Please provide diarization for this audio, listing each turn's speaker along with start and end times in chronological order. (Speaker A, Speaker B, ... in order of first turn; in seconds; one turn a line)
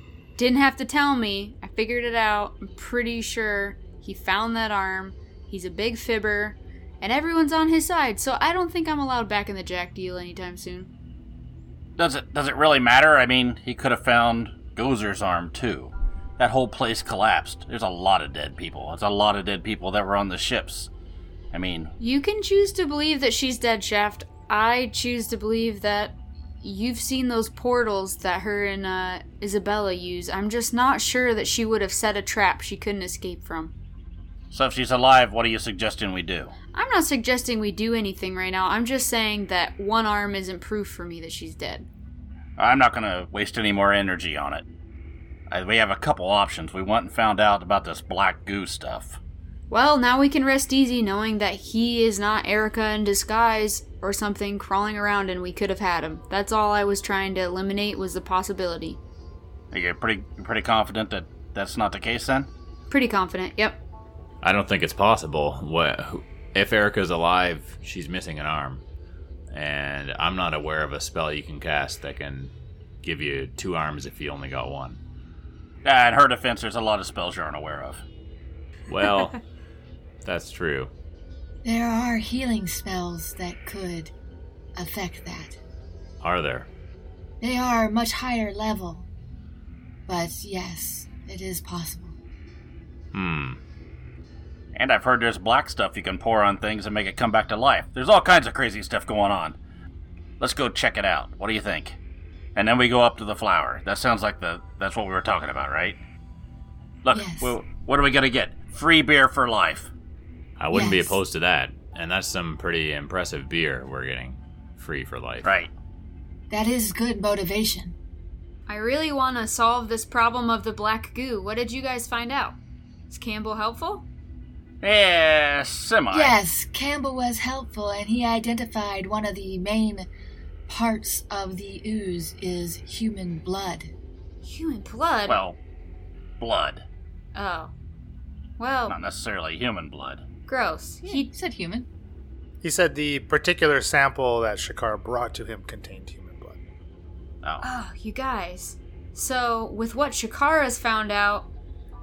Speaker A: 0.4-10.9
Speaker B: 12.0-20.9
Speaker B: 21.5-21.9
Speaker A: 22.0-33.7
Speaker B: 34.5-36.5
Speaker A: 36.7-41.9
Speaker B: 42.6-44.6
Speaker B: 45.5-49.2
Speaker A: 49.7-59.0
Speaker B: 59.7-62.5
Speaker A: 62.9-63.8
Speaker C: 64.4-68.8
Speaker C: 69.5-75.0
Speaker B: 75.8-78.0
Speaker C: 78.9-79.4
Speaker C: 80.2-80.9
Speaker D: 81.6-84.1
Speaker D: 84.8-85.6
Speaker C: 86.2-86.7
Speaker D: 87.4-89.1
Speaker D: 90.1-92.1
Speaker C: 93.1-93.6
Speaker B: 94.7-99.5
Speaker B: 100.4-102.0
Speaker B: 102.5-106.0
Speaker B: 107.0-109.9
Speaker D: 107.1-107.5
Speaker C: 110.6-115.5
Speaker D: 110.7-111.2
Speaker B: 115.4-115.7
Speaker D: 116.5-118.0
Speaker A: 118.7-122.6
Speaker A: 123.1-124.0
Speaker B: 124.8-126.3
Speaker D: 126.1-130.1
Speaker D: 130.7-133.9
Speaker A: 134.4-135.4
Speaker B: 135.3-135.6
Speaker B: 136.4-136.8
Speaker A: 137.3-137.7
Speaker A: 138.6-138.9
Speaker B: 138.9-140.2
Speaker A: 140.5-141.3
Speaker D: 141.0-141.9
Speaker E: 142.6-146.6
Speaker A: 147.6-151.5